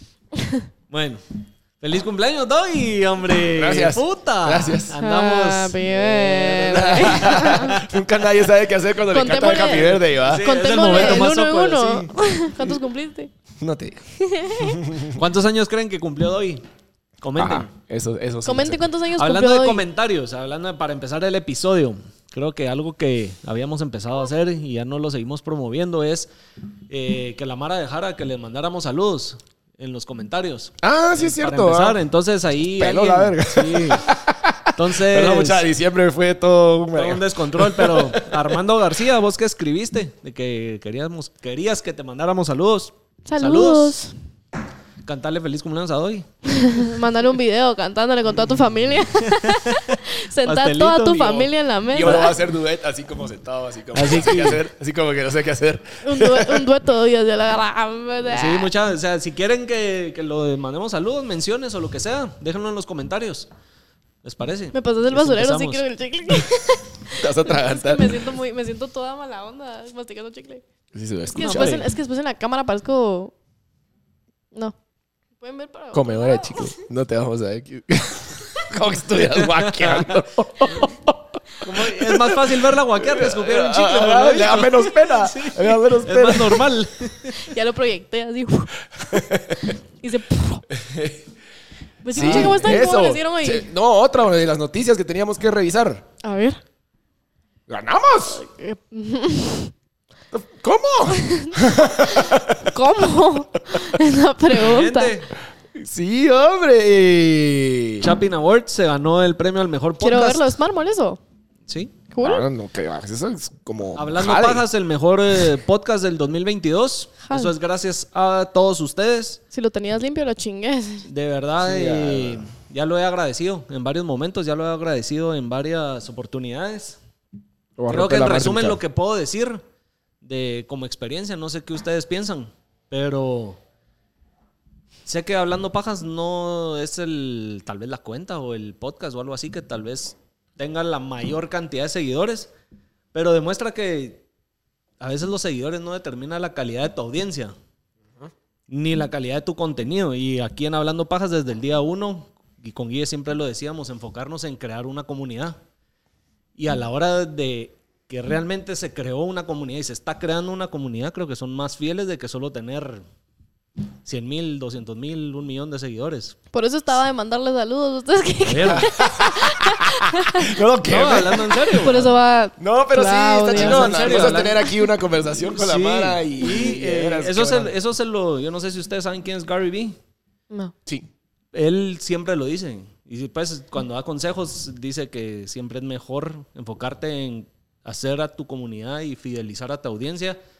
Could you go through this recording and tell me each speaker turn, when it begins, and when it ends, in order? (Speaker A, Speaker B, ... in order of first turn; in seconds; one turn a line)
Speaker A: 0.3-0.7
Speaker B: 0.9-1.2
Speaker B: 1.8-7.8
Speaker C: 3.5-4.9
Speaker A: 5.0-7.8
Speaker C: 6.6-10.5
Speaker A: 9.1-13.3
Speaker B: 10.2-12.1
Speaker C: 13.6-14.0
Speaker A: 14.1-14.9
Speaker C: 14.6-15.2
Speaker B: 15.1-16.6
Speaker B: 17.2-17.7
Speaker C: 17.3-18.8
Speaker A: 18.4-19.8
Speaker B: 19.1-26.3
Speaker B: 26.9-34.1
Speaker C: 30.8-32.0
Speaker C: 32.8-38.5
Speaker B: 34.7-35.6
Speaker B: 36.9-44.0
Speaker A: 43.2-44.1
Speaker B: 45.0-46.3
Speaker A: 46.5-52.4
Speaker B: 49.3-51.5
Speaker C: 51.9-56.7
Speaker B: 52.0-52.3
Speaker B: 53.9-54.6
Speaker A: 56.0-58.7
Speaker B: 58.3-63.5
Speaker B: 64.2-65.8
Speaker A: 64.7-70.6
Speaker C: 67.1-68.2
Speaker C: 70.9-71.8
Speaker A: 71.3-73.3
Speaker B: 71.3-71.9
Speaker A: 75.4-76.8
Speaker C: 75.9-86.7
Speaker B: 79.3-80.2
Speaker B: 81.6-87.4
Speaker A: 87.3-90.7
Speaker C: 89.1-89.8
Speaker C: 90.7-91.2
Speaker A: 92.0-93.7
Speaker C: 92.1-96.0
Speaker B: 92.2-92.7
Speaker A: 96.2-96.6
Speaker C: 97.7-98.4
Speaker A: 98.3-99.7
Speaker C: 100.3-102.7
Speaker A: 101.1-105.1
Speaker B: 104.5-105.3
Speaker C: 105.7-108.1
Speaker B: 108.0-110.5
Speaker A: 110.0-111.2
Speaker B: 111.7-112.0
Speaker A: 112.1-112.5
Speaker C: 112.2-114.6
Speaker B: 114.0-119.4
Speaker A: 117.2-117.5
Speaker A: 119.5-121.0
Speaker B: 121.1-127.0
Speaker C: 121.6-122.5
Speaker C: 127.8-128.8
Speaker B: 127.9-129.6
Speaker B: 130.2-133.6
Speaker B: 135.1-142.5
Speaker B: 143.1-144.2
Speaker B: 145.0-147.5
Speaker B: 148.7-155.6
Speaker B: 156.6-163.0
Speaker B: 164.0-166.3
Speaker A: 166.5-170.6
Speaker B: 168.4-168.9
Speaker C: 168.6-171.8
Speaker B: 170.8-172.1
Speaker A: 171.7-174.7
Speaker C: 172.6-177.7
Speaker B: 173.5-174.6
Speaker B: 175.5-179.9
Speaker B: 181.5-190.4